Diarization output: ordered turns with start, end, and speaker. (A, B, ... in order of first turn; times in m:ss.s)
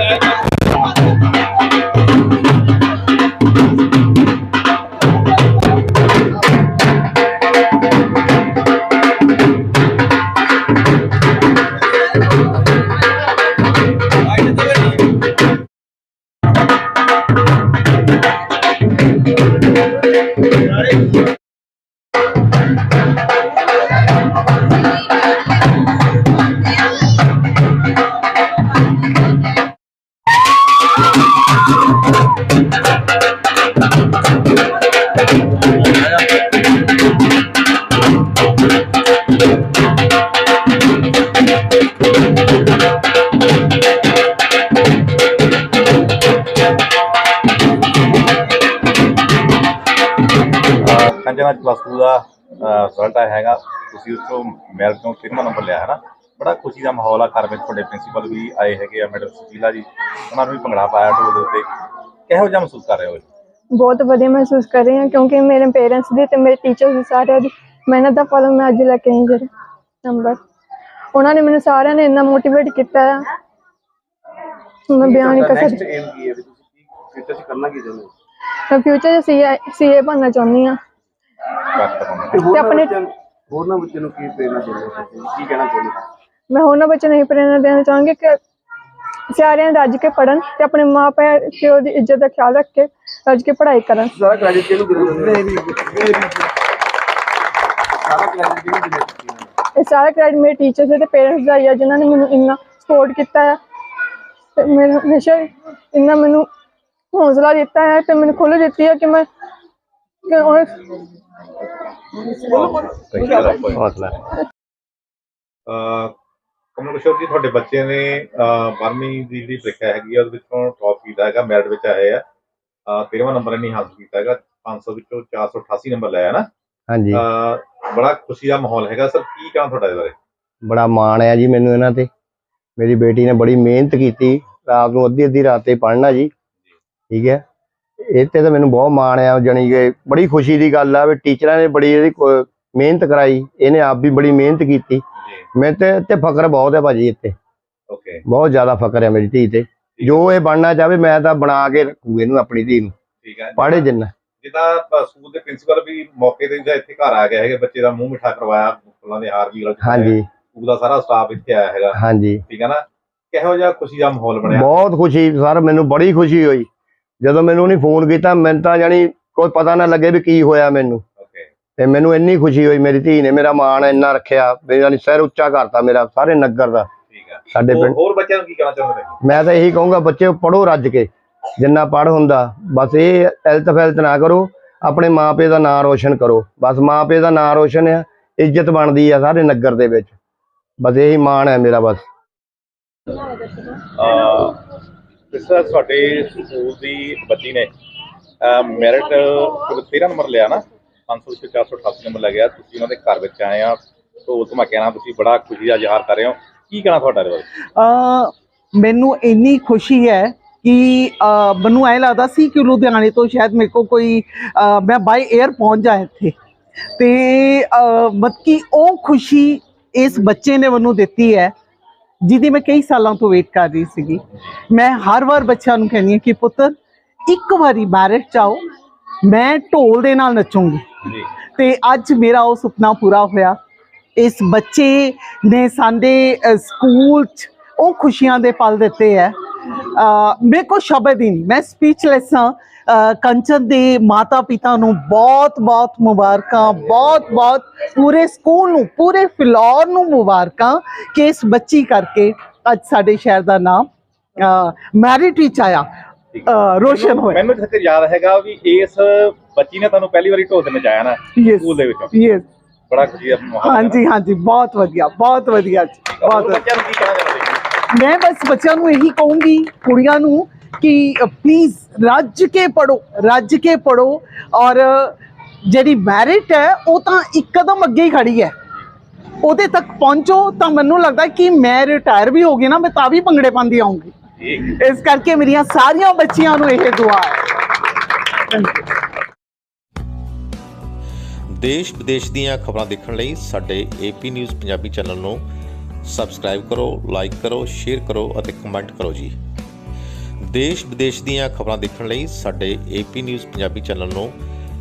0:50.8-1:01.7 A
1:02.3-1:03.3 A
1:03.7-1:09.5 B
1:10.0-1:10.4 B
1:11.1-1:13.2 B
1:14.9-1:15.9 B
1:15.0-1:18.1 C
1:18.7-1:20.8 B
1:21.8-1:22.5 A
1:22.3-1:26.0 C
1:22.4-1:23.0 B
1:26.5-1:28.4 B
1:29.3-1:34.1 B
1:34.2-1:36.3 C
1:38.0-1:39.5 C
1:39.8-1:43.6 B
1:44.6-1:46.5 B
1:47.1-1:49.3 B
1:50.3-1:50.8 B
1:52.5-1:53.8 A
1:53.7-1:54.2 D
1:55.7-1:56.1 A
1:56.8-2:02.2 A
2:02.9-2:06.5 A
2:06.9-2:07.2 D
2:07.1-2:10.2 A
2:10.6-2:12.1 D
2:12.8-2:16.3 D
2:17.1-2:17.4 D
2:18.1-2:25.0 D
2:25.6-2:27.4 D
2:27.9-2:28.2 A
2:28.3-2:32.9 D
2:33.2-2:33.9 A
2:33.6-2:34.1 D
2:34.4-2:42.0 A
2:39.8-2:40.2 D
2:41.9-2:42.4 D
2:42.5-2:44.7 A
2:44.5-2:46.7 D
2:47.2-2:51.0 D
2:51.2-2:51.5 A
2:51.8-2:56.9 D
2:57.1-2:59.2 A
2:57.5-2:58.0 D
2:59.2-3:10.2 D
3:10.8-3:12.1 D
3:14.0-3:14.6 A
3:15.3-3:17.7 A
3:18.4-3:27.4 A
3:27.8-3:36.4 E
3:37.0-3:41.5 E
3:42.2-3:48.6 E
3:49.2-3:50.9 E
3:51.0-3:51.3 A
3:51.6-3:53.6 E
3:54.2-3:59.3 E
3:59.9-4:13.9 E
4:14.4-4:15.9 E
4:16.3-4:22.2 A
4:16.5-4:17.5 E
4:21.4-4:22.5 E
4:22.9-4:24.0 A
4:23.6-4:26.6 E
4:26.1-4:27.6 A
4:27.9-4:38.5 E
4:39.4-4:47.4 E
4:44.4-4:44.6 A
4:48.5-4:48.8 E
4:51.5-4:55.4 F
4:56.0-4:59.4 F
5:00.4-5:04.3 F